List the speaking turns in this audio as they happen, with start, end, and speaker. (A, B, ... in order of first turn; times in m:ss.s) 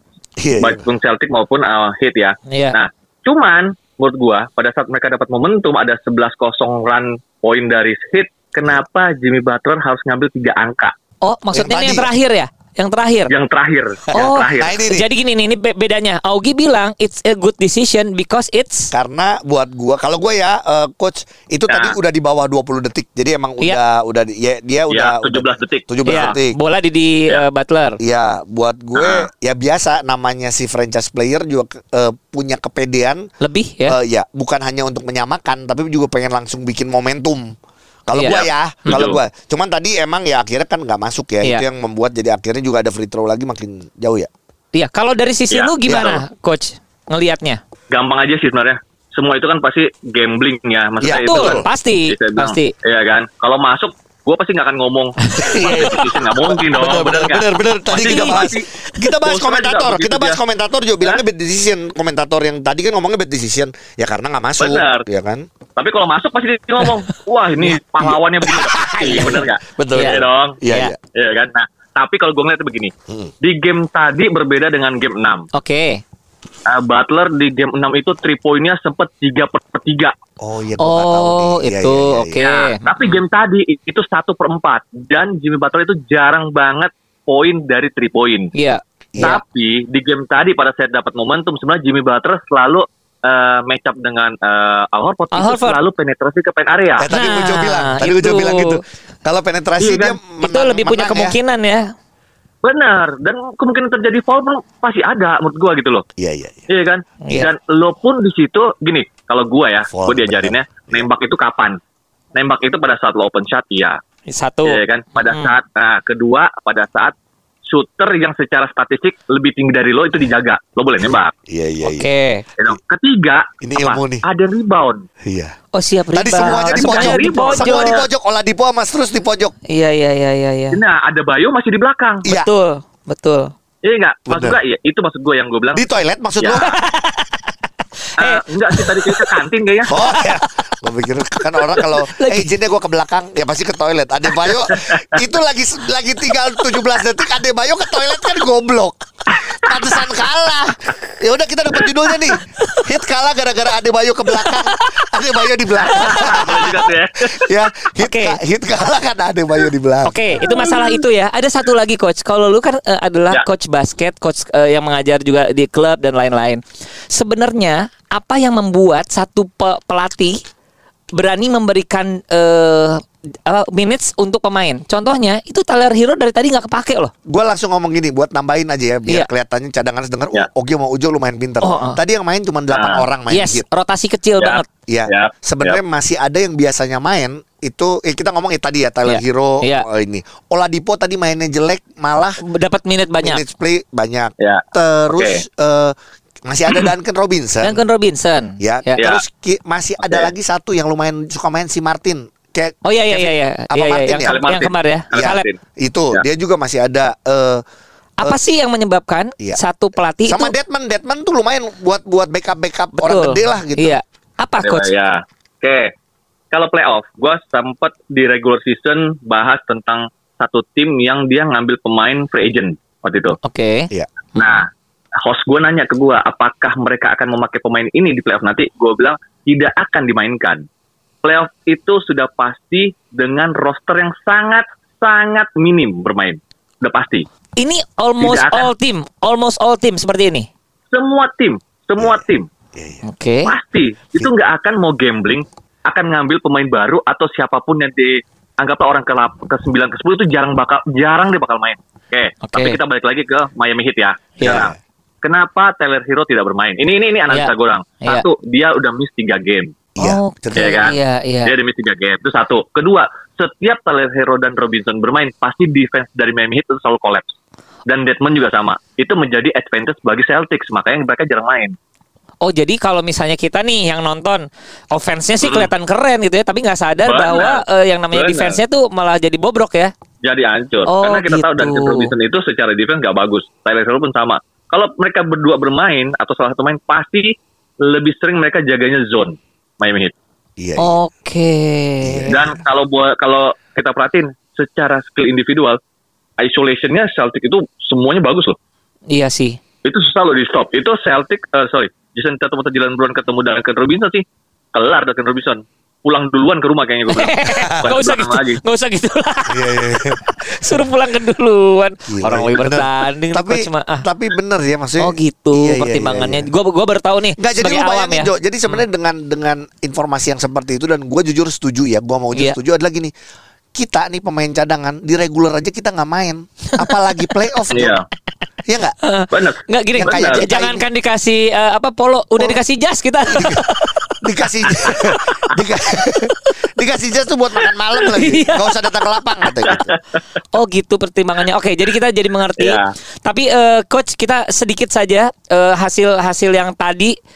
0:00.4-0:00.8 A
0:00.6-0:10.9 B
0:02.5-0:02.8 C
0:11.2-0:13.3 C
0:11.5-0:12.1 A
0:13.3-0:14.8 B
0:14.1-0:18.9 C
0:14.2-0:15.1 A
0:18.9-0:26.6 A
0:21.7-0:22.0 B
0:24.9-0:26.3 B
0:26.0-0:28.0 C
0:28.0-0:33.3 A
0:28.9-0:29.3 B
0:33.4-0:34.0 C
0:33.9-0:37.5 A
0:38.1-0:44.3 A
0:38.1-0:39.1 C
0:38.3-0:39.2 B
0:44.7-0:47.6 C
0:45.5-0:46.2 B
0:45.8-0:46.2 A
0:47.9-0:58.7 B
0:51.0-0:51.7 A
0:51.1-0:52.7 C
0:55.3-0:55.8 C
0:55.4-1:05.4 A
0:57.9-0:58.5 C
0:59.2-1:00.4 B
1:04.6-1:05.0 B
1:05.8-1:10.6 B
1:08.1-1:11.0 A
1:08.7-1:09.4 C
1:09.9-1:10.9 C
1:11.1-1:15.5 B
1:15.5-1:16.0 C
1:16.6-1:20.1 B
1:20.4-1:22.4 A
1:20.8-1:23.2 C
1:22.4-1:28.5 B
1:28.5-1:29.4 C
1:29.1-1:29.4 A
1:29.2-1:37.1 B
1:35.3-1:35.8 C
1:37.0-1:41.4 A
1:37.1-1:38.8 C
1:39.8-1:40.2 B
1:40.4-1:41.8 C
1:42.6-1:46.0 B
1:46.2-1:46.7 A
1:46.7-1:51.8 B
1:49.9-1:51.1 A
1:52.3-1:54.0 B
1:54.3-1:55.5 C
1:54.6-1:57.1 B
1:57.7-2:01.3 B
2:01.0-2:02.1 A
2:01.8-2:02.4 C
2:02.6-2:05.0 B
2:03.6-2:04.2 A
2:05.2-2:05.5 A
2:05.7-2:08.0 C
2:06.1-2:09.5 A
2:06.7-2:08.0 B
2:09.7-2:10.8 C
2:10.7-2:12.3 B
2:12.3-2:13.5 C
2:13.8-2:15.8 B
2:14.3-2:14.6 A
2:15.7-2:16.7 A
2:16.4-2:16.6 B
2:16.6-2:17.3 C
2:18.2-2:19.9 B
2:18.2-2:19.3 C
2:19.9-2:29.0 A
2:19.9-2:20.4 C
2:21.6-2:22.5 C
2:24.7-2:25.1 B
2:29.3-2:30.1 B
2:29.6-2:40.8 A
2:32.3-2:32.8 C
2:34.3-2:36.8 C
2:35.9-2:37.5 B
2:38.0-2:38.4 C
2:40.0-2:50.4 C
2:40.4-2:40.8 B
2:51.1-2:57.1 C
2:57.3-3:03.6 A
3:01.6-3:02.0 C
3:02.7-3:03.0 B
3:03.3-3:04.7 C
3:04.4-3:05.8 B
3:04.9-3:12.4 A
3:09.0-3:09.8 C
3:12.4-3:13.4 C
3:13.2-3:15.9 A
3:14.4-3:15.4 B
3:16.4-3:17.8 A
3:17.6-3:19.0 C
3:18.6-3:24.4 A
3:19.0-3:19.2 B
3:20.0-3:20.3 B
3:22.8-3:25.4 C
3:24.2-3:25.6 B
3:25.1-3:27.6 A
3:28.2-3:30.5 C
3:30.3-3:34.0 A
3:33.0-3:34.9 C
3:34.6-3:35.9 B
3:36.5-3:43.4 B
3:43.4-3:44.6 C
3:44.4-3:44.6 B
3:45.2-3:50.6 B
3:51.2-3:57.2 B
3:57.6-4:00.5 C
3:58.2-3:58.7 B
4:00.9-4:02.5 B
4:02.0-4:03.0 A
4:03.0-4:03.5 C
4:03.4-4:19.7 B
4:12.4-4:12.8 C
4:14.4-4:14.7 C
4:14.4-4:14.8 A
4:20.0-4:20.9 A
4:20.0-4:21.5 C
4:20.5-4:27.3 B
4:27.9-4:31.7 B
4:32.4-4:39.9 C
4:35.4-4:35.7 B
4:37.0-4:38.6 B
4:40.2-4:50.1 B
4:40.9-4:42.1 C
4:50.6-4:51.0 A
4:50.8-4:52.4 C
4:52.0-4:52.4 A
4:52.3-4:55.8 B
4:56.4-4:58.6 B
4:59.1-4:59.6 C
4:59.8-5:08.6 B
5:07.1-5:14.0 C
5:09.5-5:10.9 A
5:12.1-5:16.5 A
5:15.0-5:18.8 C
5:17.4-5:23.1 A
5:23.7-5:27.9 A
5:27.7-5:28.1 B
5:28.7-5:29.0 A
5:29.0-5:35.2 C
5:29.3-5:30.5 B
5:29.9-5:30.8 A
5:33.3-5:33.7 A
5:34.2-5:39.9 A
5:35.9-5:36.4 C
5:38.0-5:39.1 C
5:39.6-5:40.2 B
5:40.5-5:47.2 C
5:42.6-5:42.9 B